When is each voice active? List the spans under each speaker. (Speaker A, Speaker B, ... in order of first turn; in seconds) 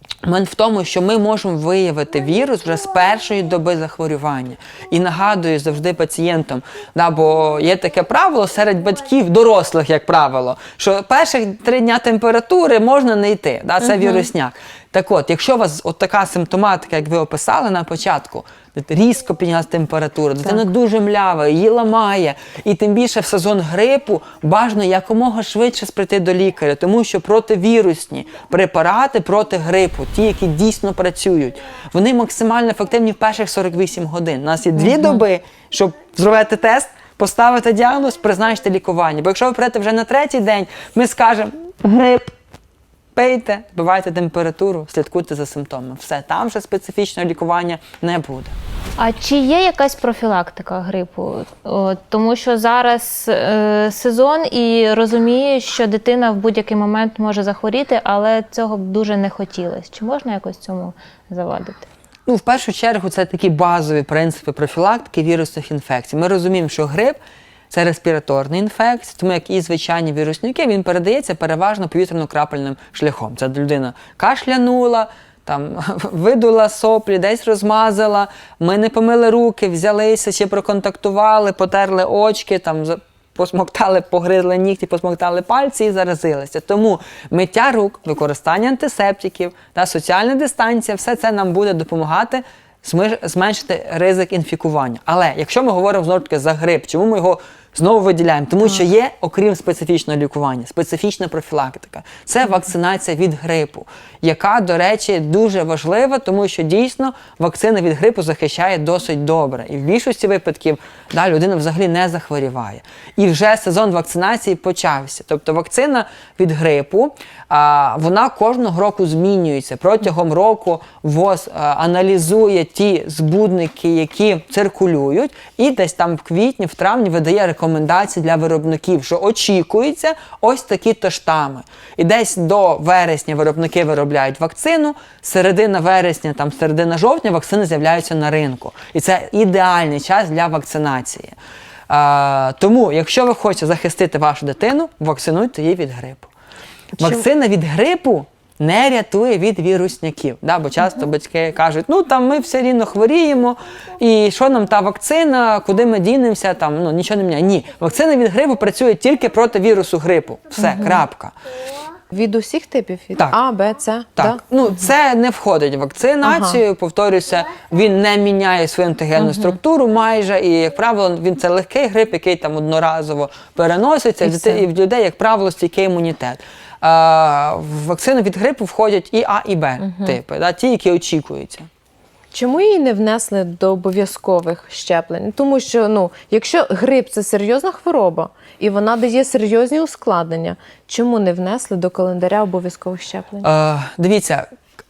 Speaker A: 0.2-42.3, 43.1-48.5, 62.3-67.2, 67.7-141.3, 141.9-146.3, 147.0-161.3, 164.2-181.7, 193.4-194.5
Speaker B: 13.9-14.2, 34.8-35.2, 147.0-147.2, 160.6-161.0, 162.1-164.4, 166.2-166.6, 169.2-169.5, 174.2-174.6, 179.8-180.2, 182.3-193.5
Speaker C: 49.0-61.9